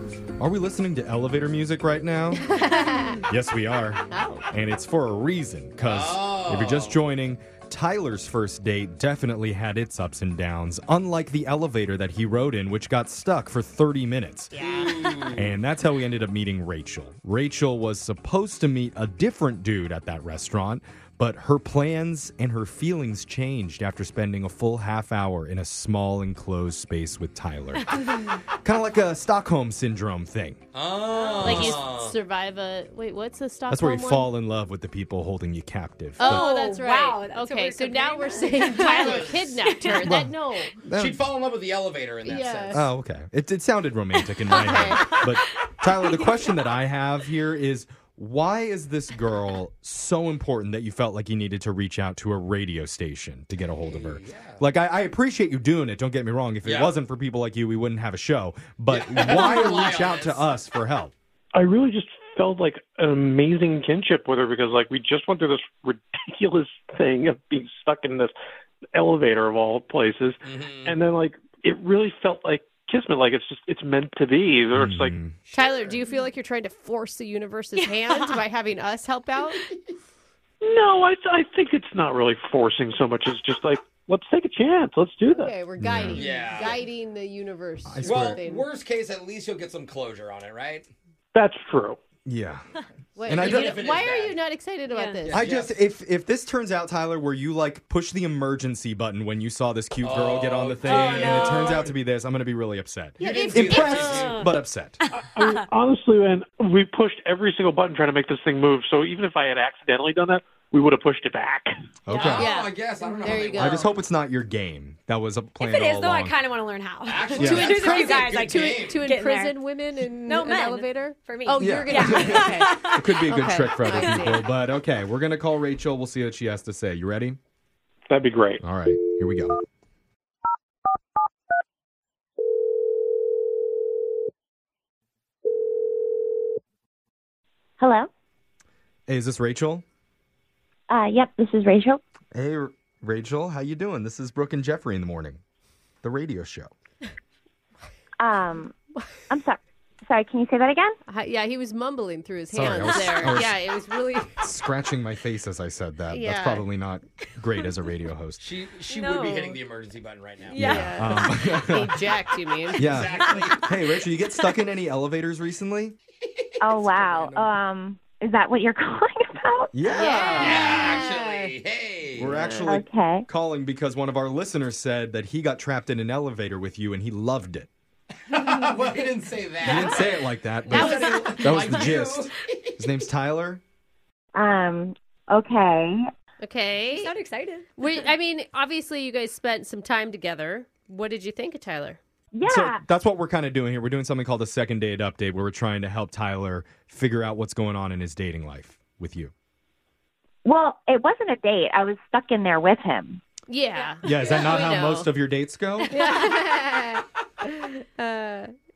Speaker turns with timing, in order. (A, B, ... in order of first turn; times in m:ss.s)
0:00.4-0:02.4 A
0:02.3-0:03.2 B
0:03.3-0:14.5 A
0:04.1-0:04.4 B
0:05.8-0:07.0 C
0:14.5-0:15.4 B
0:14.6-0:15.5 C
0:15.3-0:30.6 A
0:30.7-0:32.2 C
0:31.1-0:31.6 D
0:31.4-0:34.3 B
0:31.4-0:31.8 A
0:33.7-0:36.5 A
0:36.2-0:40.7 B
0:36.2-0:40.1 D
0:38.6-0:39.6 C
0:40.0-0:40.3 A
0:40.8-0:41.2 A
0:41.0-0:42.9 C
0:42.2-0:42.9 B
0:42.7-1:01.1 A
0:44.5-0:45.2 B
0:44.7-0:45.1 D
0:46.0-0:46.4 D
0:53.9-0:54.6 C
0:56.6-0:56.9 C
0:58.9-1:00.5 C
1:01.5-1:08.3 E
1:08.9-1:15.2 E
1:10.4-1:11.0 C
1:14.8-1:15.4 A
1:15.5-1:16.0 C
1:15.5-1:19.7 B
1:17.8-1:18.4 D
1:20.6-1:25.5 E
1:25.3-1:28.7 B
1:25.8-1:26.2 A
1:26.2-1:26.8 C
1:27.9-1:28.4 A
1:28.0-1:30.9 C
1:31.3-1:32.0 E
1:32.3-1:32.6 A
1:33.2-1:35.5 B
1:33.3-1:33.9 A
1:33.3-1:34.4 C
1:34.9-1:35.2 D
1:35.3-1:35.8 C
1:35.3-1:45.0 A
1:40.0-1:42.0 C
1:40.8-1:41.9 D
1:43.2-1:44.3 B
1:43.2-1:44.4 C
1:44.1-1:45.6 D
1:45.2-1:51.7 E
1:52.1-1:52.5 A
1:52.1-1:53.9 C
1:52.3-1:53.9 B
1:53.5-1:56.4 A
1:55.6-1:59.6 D
1:57.0-1:59.1 C
1:57.4-1:57.8 A
1:57.4-2:04.4 B
2:00.3-2:03.2 D
2:01.6-2:07.4 A
2:03.9-2:04.4 D
2:08.1-2:08.6 E
2:08.6-2:09.6 A
2:17.8-2:18.1 F
2:19.1-2:19.8 A
2:20.9-2:22.0 F
2:22.3-2:25.4 A
2:26.0-2:26.7 A
2:28.2-2:28.8 F
2:29.3-2:31.0 F
2:31.1-2:34.4 B
2:32.5-2:33.6 A
2:34.4-2:38.4 A
2:36.1-2:36.7 B
2:38.4-2:40.6 C
2:38.9-2:39.6 D
2:40.4-2:41.3 D
2:40.6-2:42.0 A
2:40.6-2:42.8 B
2:42.8-2:46.0 A
2:42.8-2:43.7 C
2:43.2-2:43.5 D
2:46.2-2:47.5 C
2:46.6-2:50.9 F
2:49.7-2:50.9 A
2:49.9-2:51.5 B
2:50.4-2:52.4 C
2:52.2-2:57.7 A
2:52.4-2:52.7 B
2:52.6-2:53.2 F
2:58.3-3:02.8 C
2:59.6-3:03.6 A
3:00.7-3:01.8 B
3:04.4-3:06.0 F
3:06.4-3:07.1 B
3:06.9-3:08.0 D
3:07.8-3:12.0 B
3:12.3-3:12.8 F
3:12.5-3:19.3 A
3:20.4-3:23.2 F
3:23.5-3:25.1 B
3:24.0-3:26.0 A
3:24.0-3:24.5 D
3:25.9-3:28.5 B